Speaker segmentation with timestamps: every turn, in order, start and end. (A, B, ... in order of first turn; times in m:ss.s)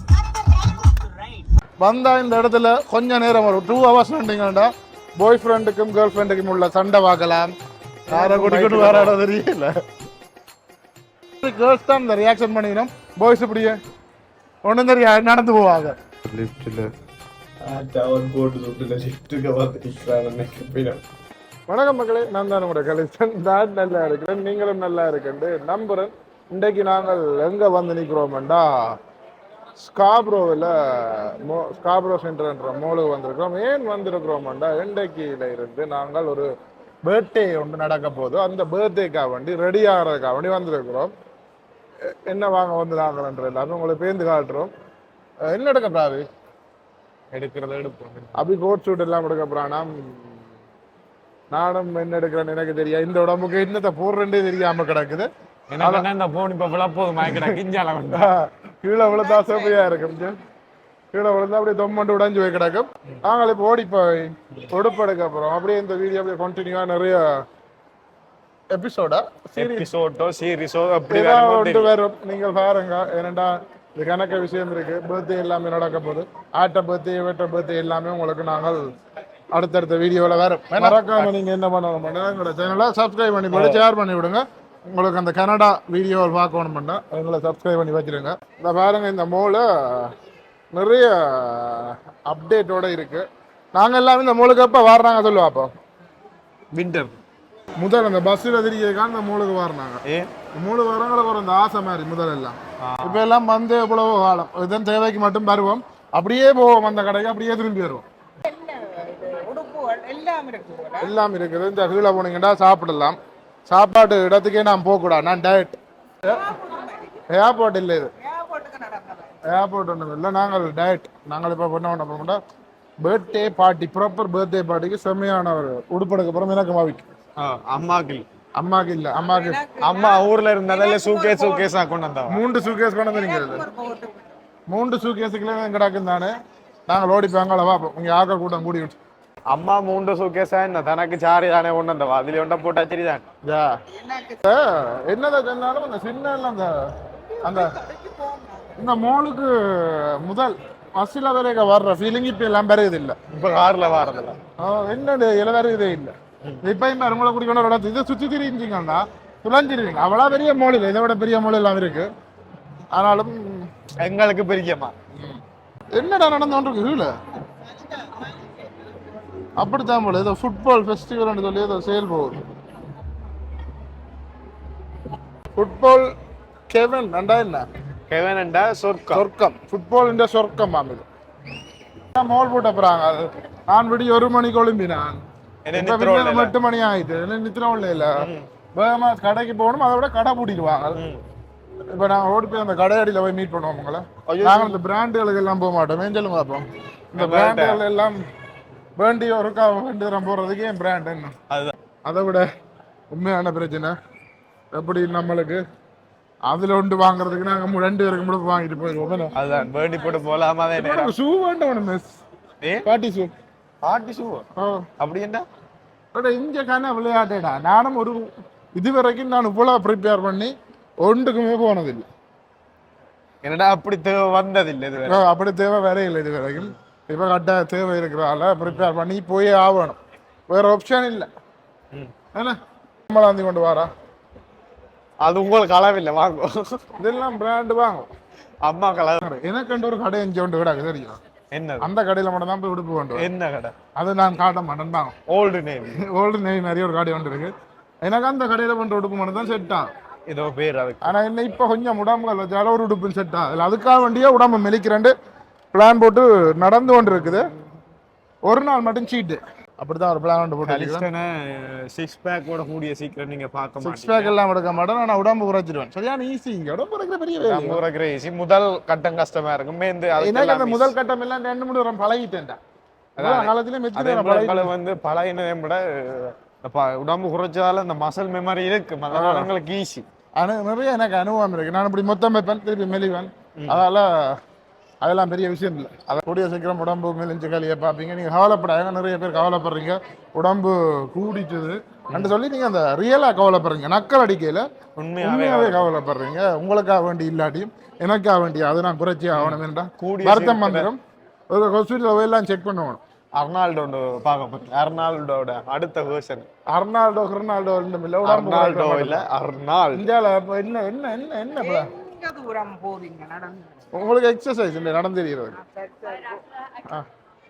0:01.8-0:07.5 A
0:08.1-0:09.7 A
0:08.1-0:09.2 B
0:11.4-0:13.8 A
0:14.6-0:16.0 A
0:16.3-0:16.8 B
0:17.6-0:21.0 B
0:21.7-0:28.9 A
0:29.8-0:36.5 A
0:37.0-0:41.1 A
0:42.2-0:44.7 A
0:45.4-0:46.2 A
0:47.3-0:48.4 B
0:48.4-0:50.4 A
0:51.5-0:55.3 A
0:55.7-0:58.3 B
0:55.8-0:56.1 A
0:57.2-0:57.6 A
0:58.1-1:00.4 A
0:59.1-1:00.0 C
1:01.1-1:07.3 A
1:08.7-1:09.9 A
1:09.6-1:11.9 B
1:11.1-1:18.8 A
1:19.5-1:30.1 A
1:20.7-1:21.3 B
1:23.5-1:23.8 B
1:30.7-1:35.7 A
1:36.7-1:37.2 B
1:37.8-1:40.0 A
1:40.0-1:40.3 B
1:40.5-1:48.0 A
1:42.8-1:43.2 B
1:48.4-1:51.1 C
1:51.0-1:56.4 A
1:56.2-1:57.2 C
1:57.3-1:58.1 A
1:58.2-1:59.4 C
1:59.4-2:02.4 A
2:03.0-2:07.1 A
2:07.4-2:08.2 B
2:08.6-2:09.6 A
2:09.2-2:11.7 C
2:09.8-2:12.4 B
2:12.3-2:13.6 A
2:13.1-2:14.4 C
2:14.7-2:16.3 A
2:16.9-2:19.0 A
2:19.5-2:23.2 B
2:23.4-2:23.8 A
2:23.9-2:24.4 C
2:24.4-2:26.9 A
2:27.3-2:28.9 C
2:27.4-2:27.7 A
2:28.8-2:33.2 A
2:33.3-2:34.4 B
2:34.6-2:42.1 A
2:42.9-2:43.7 A
2:44.0-2:44.9 B
2:45.1-2:45.4 A
2:45.9-2:47.1 A
2:48.0-2:48.3 C
2:49.6-2:52.4 A
2:55.5-2:56.1 A
2:56.7-2:57.6 A
2:58.1-2:59.2 B
2:59.1-3:01.0 A
3:02.1-3:05.2 A
3:05.6-3:06.5 B
3:05.7-3:08.2 A
3:08.2-3:08.5 B
3:08.7-3:11.0 A
3:10.9-3:11.2 B
3:11.9-3:18.2 A
3:14.3-3:14.8 B
3:17.2-3:17.8 B
3:19.0-3:21.3 A
3:22.0-3:22.4 A
3:23.1-3:24.0 A
3:24.7-3:25.6 A
3:26.5-3:29.3 A
3:29.3-3:31.1 B
3:30.7-3:32.2 A
3:32.6-3:32.9 B
3:32.8-3:33.3 A
3:33.8-3:34.4 B
3:34.6-3:34.8 A
3:35.0-3:35.4 B
3:36.1-3:42.0 A
3:43.4-3:45.2 B
3:45.0-3:50.0 A
3:50.5-3:51.3 A
3:53.1-3:53.9 A
3:55.2-3:56.8 B
3:57.0-3:58.1 A
3:58.6-3:59.2 B
3:59.2-4:01.2 A
4:01.5-4:01.9 B
4:01.8-4:03.3 A
4:03.1-4:03.8 B
4:04.0-4:05.2 A
4:05.3-4:06.0 B
4:05.9-4:09.9 A
4:10.3-4:11.1 B
4:11.0-4:15.1 A
4:15.7-4:17.5 A
4:17.0-4:17.4 B
4:18.4-4:21.1 A
4:20.6-4:24.4 B
4:23.8-4:27.8 A
4:27.4-4:30.9 B
4:30.2-4:32.6 A
4:33.2-4:34.7 A
4:33.2-4:40.0 B
4:39.1-4:39.5 A
4:40.4-4:44.1 A
4:43.6-4:43.8 B
4:45.0-4:54.6 A
4:55.0-4:55.9 B
4:55.2-5:01.0 A
4:59.3-5:00.9 B
5:01.5-5:03.0 A
5:03.4-5:06.4 B
5:06.7-5:09.2 A
5:08.2-5:10.0 B
5:09.9-5:11.9 A
5:11.6-5:13.9 C
5:13.9-5:15.6 A
5:15.6-5:16.4 C